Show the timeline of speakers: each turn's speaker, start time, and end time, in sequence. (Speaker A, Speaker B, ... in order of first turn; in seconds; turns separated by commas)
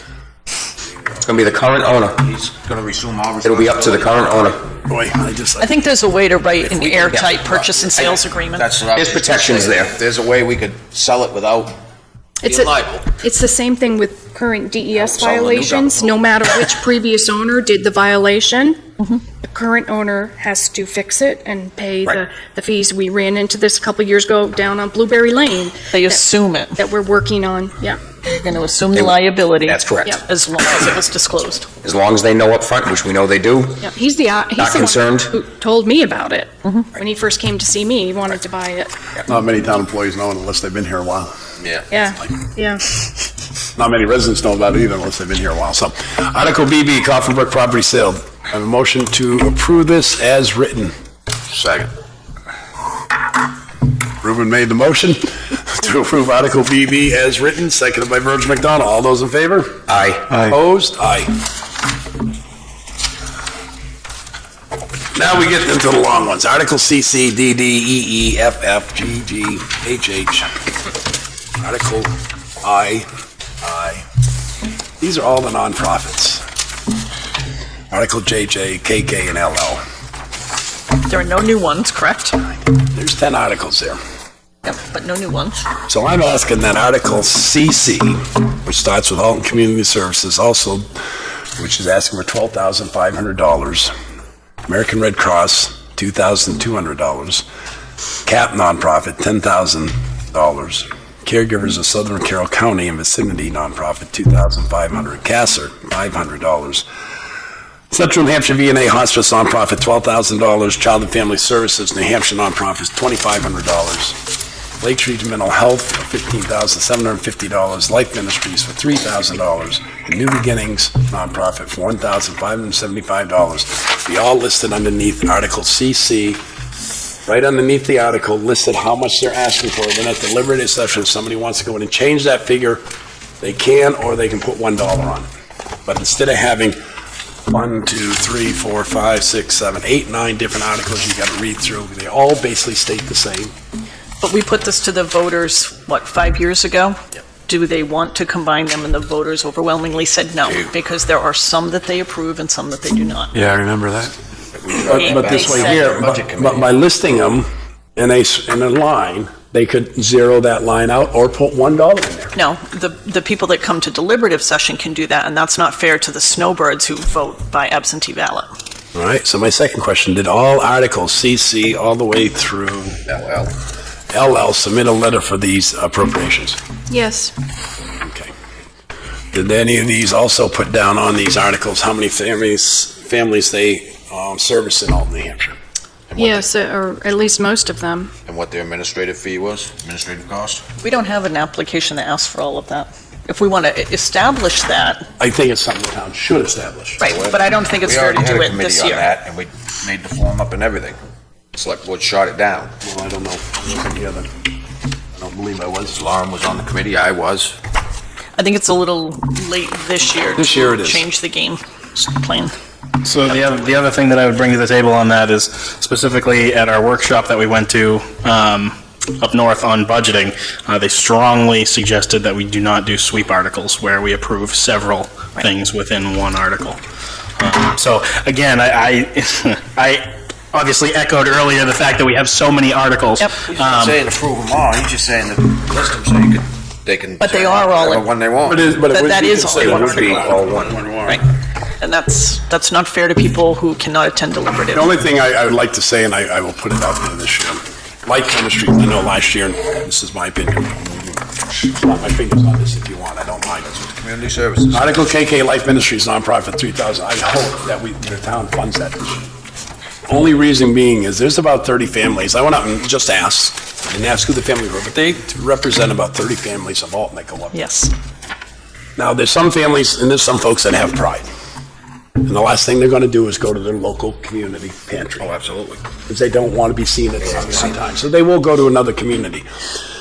Speaker A: 1.2-2.2, Speaker B: 2.2-4.3, Speaker A: 3.4-4.6, Speaker C: 4.8-5.8, Speaker D: 5.6-8.7, Speaker B: 6.6-11.7, Speaker A: 8.9-9.9, Speaker E: 12.4-18.8, Speaker B: 12.4-13.1, Speaker B: 14.9-16.2, Speaker E: 19.4-26.2, Speaker D: 25.9-26.8, Speaker E: 26.8-28.0, Speaker D: 28.2-31.7, Speaker A: 28.9-30.2, Speaker A: 31.8-33.8, Speaker E: 33.8-38.9, Speaker A: 34.6-35.3, Speaker C: 39.3-41.3, Speaker B: 41.6-41.9, Speaker E: 41.9-42.8, Speaker C: 43.8-50.9, Speaker B: 51.5-51.9, Speaker C: 54.2-59.8, Speaker A: 59.9-60.5, Speaker C: 60.4-61.3, Speaker C: 65.1-70.5, Speaker C: 71.6-73.1, Speaker C: 73.6-74.0, Speaker C: 75.0-76.4, Speaker C: 77.9-79.8, Speaker D: 81.0-82.4, Speaker C: 82.9-84.0, Speaker D: 84.6-85.6, Speaker C: 85.9-90.9, Speaker C: 91.5-93.9, Speaker C: 94.7-97.4, Speaker C: 98.2-106.8, Speaker C: 107.9-114.2, Speaker C: 114.8-126.4, Speaker C: 127.2-132.8, Speaker C: 133.4-135.3, Speaker C: 135.8-136.8, Speaker C: 137.5-143.5, Speaker D: 144.2-153.3, Speaker C: 153.3-154.1, Speaker B: 154.6-156.7, Speaker C: 154.8-162.3, Speaker D: 154.9-156.0, Speaker D: 162.3-168.5, Speaker C: 168.9-173.0, Speaker B: 173.1-173.5, Speaker C: 174.1-176.6, Speaker E: 176.9-177.3, Speaker C: 178.0-178.3, Speaker C: 179.3-185.6, Speaker B: 186.1-186.4, Speaker E: 186.2-188.1, Speaker B: 188.2-190.6, Speaker D: 190.8-195.0, Speaker C: 195.2-197.0, Speaker D: 197.0-199.1, Speaker B: 197.0-201.0, Speaker B: 201.5-202.7, Speaker C: 202.8-204.3, Speaker C: 205.2-205.9, Speaker B: 205.9-207.6, Speaker D: 208.4-212.5, Speaker C: 210.4-211.1, Speaker F: 213.0-226.8, Speaker F: 227.4-233.9, Speaker B: 233.5-238.7, Speaker D: 237.2-238.0, Speaker C: 238.4-241.2, Speaker D: 238.9-240.3, Speaker B: 239.8-240.8, Speaker A: 239.9-240.6, Speaker D: 241.8-244.9, Speaker C: 244.7-253.7, Speaker B: 253.6-254.9, Speaker C: 254.7-259.2, Speaker C: 260.1-267.5, Speaker D: 267.5-267.9, Speaker C: 269.0-271.2, Speaker C: 272.2-275.3, Speaker B: 275.2-275.9, Speaker C: 276.0-279.4